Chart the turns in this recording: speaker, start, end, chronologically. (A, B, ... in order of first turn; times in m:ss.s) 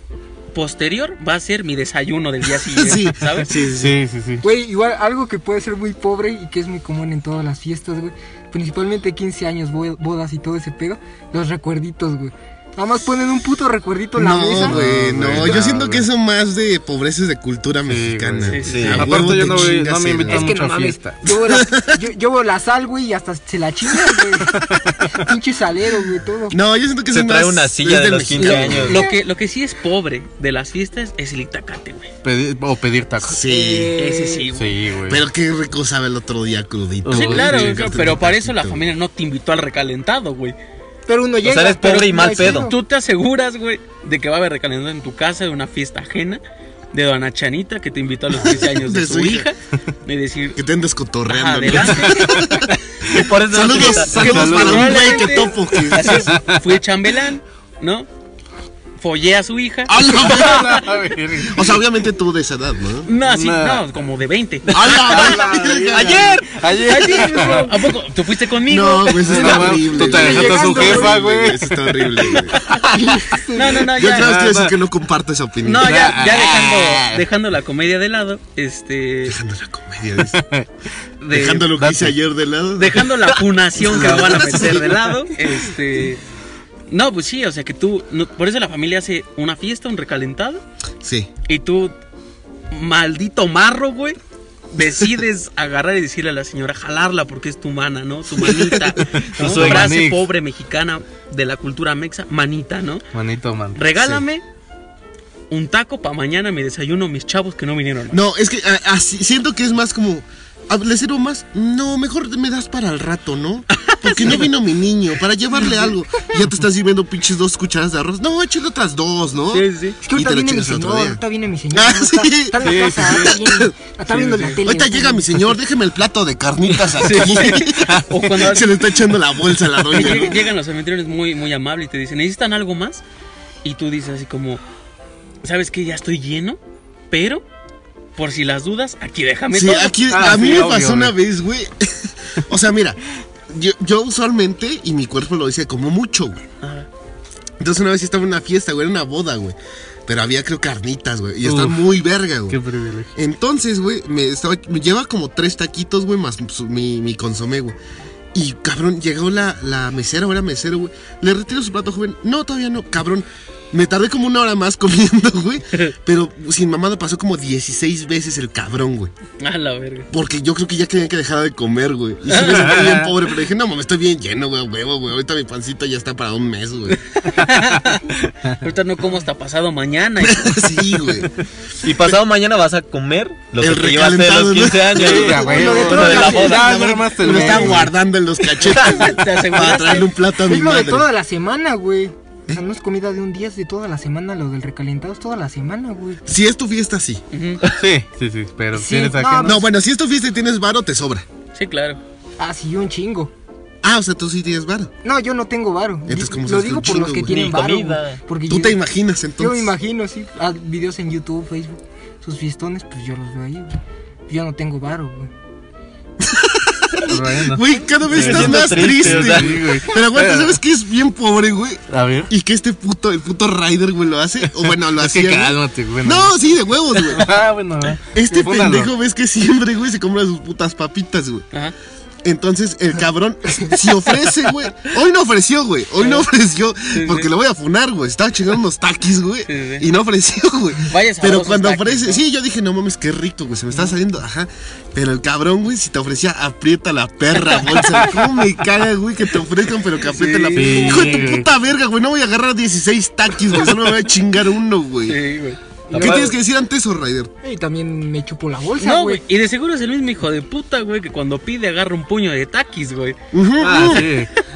0:00.5-0:03.5 A
0:02.7-0:04.0 B
0:03.6-0:04.4 C
0:04.4-0:14.8 D
0:14.2-0:20.5 B
0:14.6-0:16.1 C
0:17.9-0:21.2 C
0:18.4-0:19.0 A
0:18.6-0:19.4 E
0:20.2-0:26.6 D
0:21.4-0:22.0 B
0:24.5-0:25.2 C
0:26.5-0:29.0 B
0:27.1-0:29.0 E
0:28.3-0:32.1 A
0:28.9-0:29.1 D
0:32.2-0:33.4 C
0:33.2-0:33.9 B
0:33.3-0:34.5 D
0:34.0-0:34.7 A
0:34.5-0:35.2 C
0:35.1-0:38.9 B
0:37.0-0:38.1 C
0:37.1-0:40.6 A
0:41.1-0:42.8 D
0:41.4-0:42.7 E
0:41.8-0:46.4 A
0:46.9-0:50.6 A
0:48.3-0:49.5 B
0:50.6-0:52.7 B
0:51.3-0:52.5 A
0:52.0-0:52.7 C
0:53.1-0:54.8 E
0:53.5-0:56.3 B
0:53.6-0:58.1 A
0:54.1-0:56.6 C
0:59.0-1:01.0 A
0:59.9-1:00.8 B
1:00.1-1:01.7 C
1:01.4-1:03.1 B
1:03.0-1:05.4 A
1:03.2-1:03.8 C
1:04.7-1:07.8 C
1:04.7-1:06.4 B
1:05.9-1:06.4 E
1:06.0-1:09.9 A
1:08.6-1:13.1 B
1:09.2-1:13.0 C
1:09.9-1:11.2 D
1:12.9-1:13.8 D
1:13.5-1:14.5 A
1:13.9-1:16.0 B
1:14.1-1:14.8 C
1:15.6-1:19.4 A
1:15.8-1:17.2 C
1:19.2-1:20.4 B
1:20.2-1:20.7 C
1:21.2-1:21.7 A
1:21.3-1:23.2 B
1:21.7-1:22.1 C
1:22.8-1:26.2 A
1:23.8-1:24.9 B
1:24.3-1:25.0 C
1:26.9-1:30.6 A
1:31.0-1:31.3 B
1:31.5-1:31.9 A
1:32.7-1:34.2 A
1:34.7-1:43.0 A
1:38.9-1:40.3 C
1:39.4-1:40.0 E
1:43.1-1:44.2 C
1:43.7-1:44.4 A
1:45.5-1:48.2 A
1:48.1-2:01.2 B
1:53.8-1:54.5 A
1:59.5-2:00.0 A
2:00.0-2:05.5 D
2:01.7-2:03.7 B
2:02.6-2:03.4 C
2:04.1-2:04.6 C
2:04.6-2:10.5 B
2:06.8-2:09.1 A
2:07.6-2:08.1 C
2:09.9-2:13.0 A
2:13.6-2:14.6 A
2:15.4-2:16.6 A
2:17.1-2:17.4 A
2:18.2-2:20.3 A
2:19.5-2:26.4 B
2:20.1-2:21.1 C
2:26.6-2:26.9 A
2:27.6-2:32.6 B
2:31.4-2:31.8 C
2:32.5-2:33.1 C
2:33.2-2:37.8 B
2:38.3-2:49.1 B
2:49.4-2:50.1 A
2:50.1-2:57.0 B
2:52.3-2:52.8 A
2:52.6-2:53.1 C
2:57.1-2:58.1 A
2:58.6-3:01.0 A
3:00.2-3:01.3 B
3:01.8-3:06.9 E
3:03.6-3:11.1 B
3:04.9-3:07.9 C
3:05.4-3:06.8 D
3:08.5-3:10.1 A
3:10.4-3:16.2 D
3:16.2-3:17.2 B
3:17.3-3:17.6 A
3:17.7-3:19.6 C
3:18.7-3:19.6 D
3:19.4-3:21.2 B
3:21.5-3:22.0 A
3:22.4-3:23.3 D
3:23.8-3:24.9 B
3:25.0-3:28.8 D
3:26.1-3:27.5 B
3:27.2-3:28.2 E
3:28.5-3:29.7 B
3:29.4-3:33.8 D
3:34.3-3:35.3 D
3:36.2-3:47.3 B
3:37.0-3:40.6 C
3:38.1-3:39.8 E
3:41.9-3:42.3 C
3:44.9-3:46.3 C
3:46.9-3:48.9 C
3:48.1-3:51.4 B
3:52.2-4:15.2 B
3:56.0-3:56.2 A
3:56.9-3:57.3 A
3:59.4-3:59.8 A
4:00.9-4:02.2 A
4:07.5-4:08.1 A
4:10.0-4:11.0 A
4:10.5-4:11.5 C
4:15.0-4:16.3 A
4:15.9-4:16.4 D
4:15.9-4:17.3 B
4:17.4-4:19.2 D
4:18.8-4:23.2 A
4:23.3-4:24.1 B
4:23.6-4:24.3 C
4:23.7-4:24.1 A